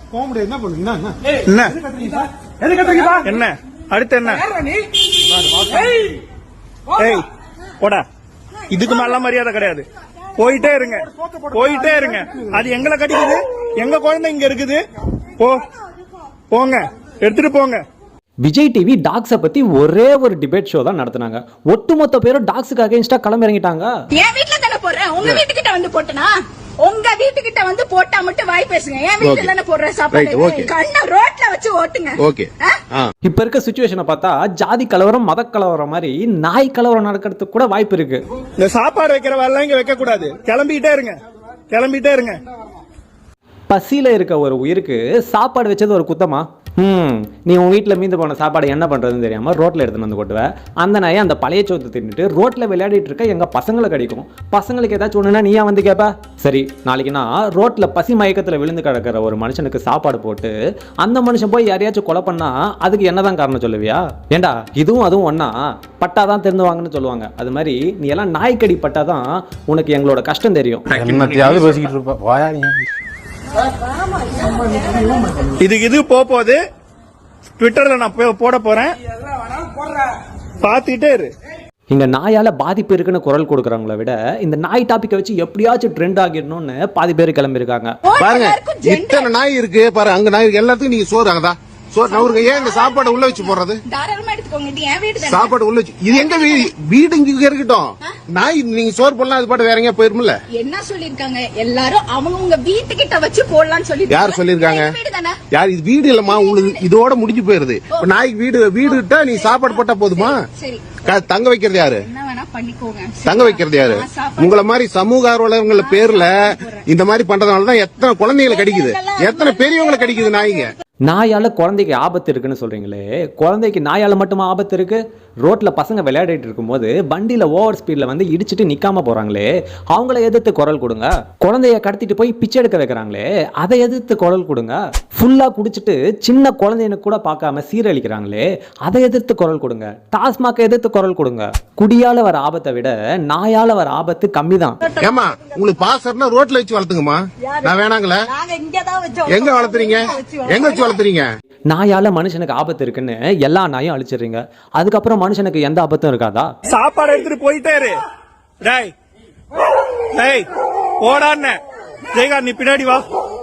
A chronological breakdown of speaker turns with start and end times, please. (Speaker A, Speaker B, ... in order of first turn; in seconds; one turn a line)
Speaker A: 0.3-0.8
Speaker B: 1.4-1.8
Speaker B: 3.2-4.4
Speaker B: 7.0-7.2
Speaker B: 7.8-8.1
Speaker B: 8.7-9.8
Speaker B: 10.4-14.8
Speaker B: 15.4-15.6
Speaker B: 16.5-17.8
Speaker C: 18.4-23.9
Speaker D: 24.1-32.8
Speaker E: 29.2-29.5
Speaker E: 30.1-30.7
Speaker E: 32.2-33.1
Speaker C: 33.2-38.2
Speaker B: 38.6-41.2
Speaker B: 41.7-42.4
Speaker C: 43.7-71.0
Speaker A: 71.0-72.8
Speaker B: 71.0-71.7
Speaker B: 75.6-76.6
Speaker B: 77.6-79.0
Speaker B: 80.6-81.3
Speaker C: 81.9-88.0
Speaker D: 88.0-89.3
Speaker E: 88.2-93.8
Speaker D: 92.0-95.5
Speaker E: 95.2-100.4
Speaker D: 96.1-96.7
Speaker D: 100.5-105.4
Speaker E: 104.1-105.0
Speaker E: 105.5-110.4
Speaker D: 106.3-106.8
Speaker D: 108.9-111.0
Speaker E: 111.0-112.0
Speaker D: 112.0-114.6
Speaker E: 113.2-120.7
Speaker D: 115.8-116.8
Speaker D: 118.5-120.6
Speaker C: 121.0-144.9
Speaker E: 145.0-148.2
Speaker E: 149.2-151.3
Speaker C: 151.7-156.5
Speaker B: 156.7-158.0
Speaker B: 158.6-158.9
Speaker B: 160.1-160.5
Speaker B: 161.0-161.6
Speaker B: 162.1-163.1